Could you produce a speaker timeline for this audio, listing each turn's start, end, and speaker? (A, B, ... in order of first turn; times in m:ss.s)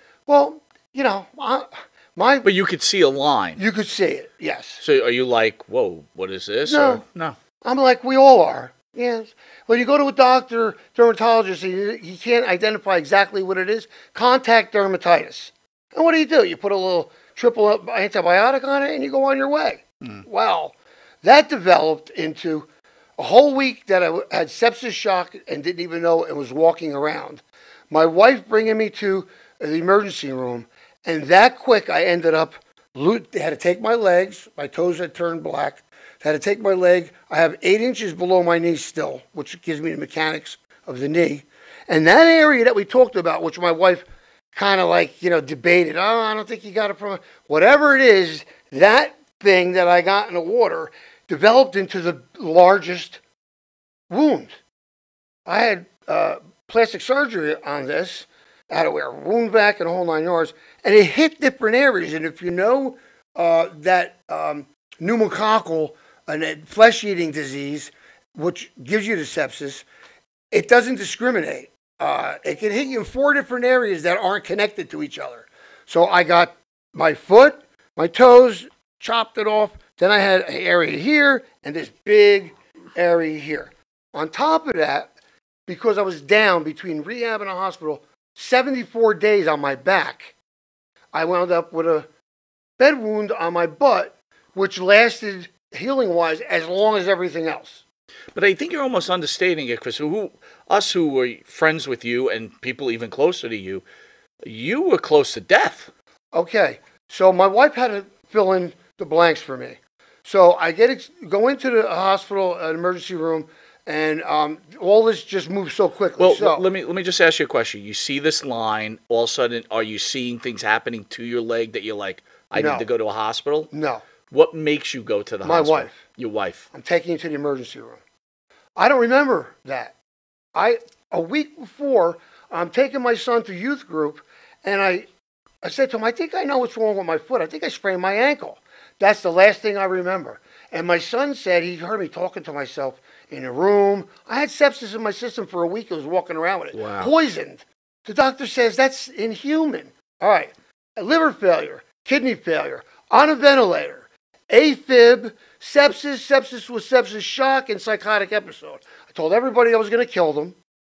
0:00.3-0:02.5 A
0:02.4-0:03.6 B
0:03.6-0:04.8 A
0:04.8-0:07.4 B
0:06.7-0:07.0 A
0:07.6-0:53.2 A
0:54.1-0:54.6 A
0:55.4-1:09.8 A
1:10.5-1:25.1 A
1:25.7-1:30.3 A
1:31.1-1:32.1 A
1:32.8-1:37.8 A
1:38.3-1:43.8 B
1:44.4-1:45.9 B
1:46.3-1:56.6 A
1:56.2-2:03.7 B
2:02.5-2:02.9 A
2:03.7-2:04.0 A
2:04.3-2:06.7 B
2:05.4-2:06.0 A
2:06.7-2:08.0 A
2:08.8-2:09.9 A
2:10.5-2:15.1 A
2:15.6-2:40.6 A
2:26.7-2:27.1 B